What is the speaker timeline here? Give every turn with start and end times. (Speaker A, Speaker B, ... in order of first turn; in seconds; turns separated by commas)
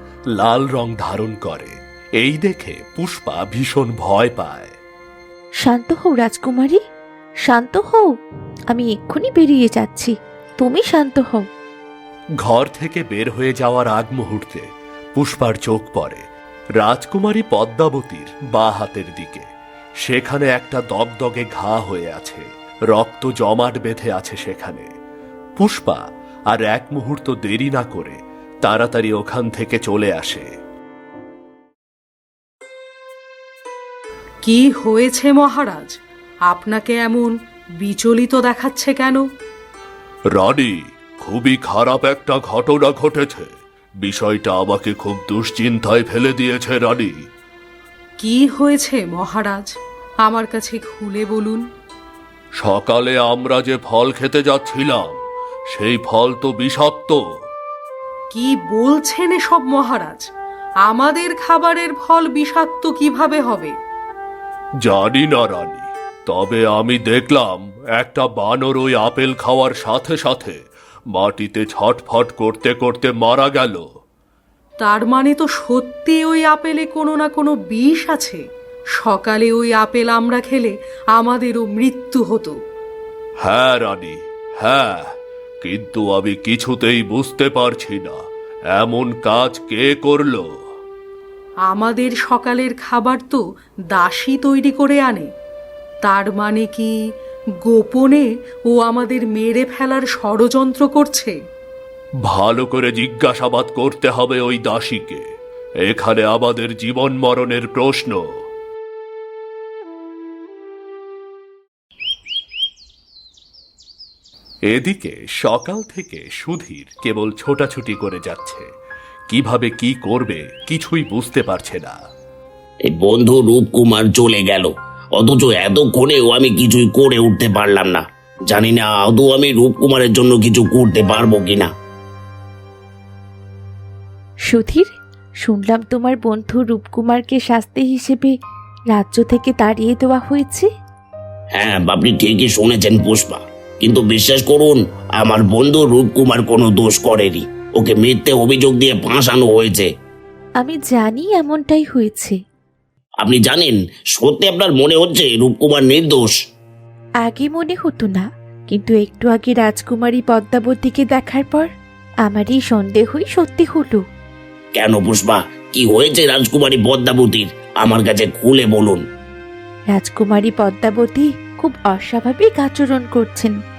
Speaker A: 0.4-4.8, Speaker B: 5.6-6.8, Speaker B: 7.5-8.1, Speaker B: 8.7-11.4, Speaker A: 12.4-14.7, Speaker A: 15.2-16.2, Speaker A: 16.8-19.5, Speaker A: 20.1-24.9, Speaker A: 25.6-30.5, Speaker C: 34.5-35.9, Speaker C: 36.5-39.2, Speaker A: 40.4-43.5, Speaker A: 44.0-47.2, Speaker C: 48.2-49.7, Speaker C: 50.3-51.6, Speaker A: 52.6-55.2, Speaker A: 55.7-57.2, Speaker C: 58.3-60.2, Speaker C: 60.9-63.7, Speaker A: 64.8-70.6, Speaker A: 71.1-73.8, Speaker C: 74.8-78.4, Speaker C: 79.0-82.5, Speaker A: 83.4-85.1, Speaker A: 85.6-88.2, Speaker A: 88.8-90.5, Speaker C: 91.7-93.4, Speaker C: 94.0-95.3, Speaker C: 96.0-96.9, Speaker C: 97.7-101.3, Speaker A: 102.3-105.2, Speaker A: 105.9-108.2, Speaker A: 114.7-118.7, Speaker A: 119.3-122.0, Speaker D: 122.9-131.7, Speaker B: 134.5-134.9, Speaker B: 135.4-138.3, Speaker B: 138.9-140.7, Speaker D: 141.6-149.9, Speaker B: 150.6-152.4, Speaker D: 153.2-156.3, Speaker B: 157.2-161.7, Speaker B: 162.3-164.0, Speaker D: 164.8-169.0, Speaker B: 169.9-173.5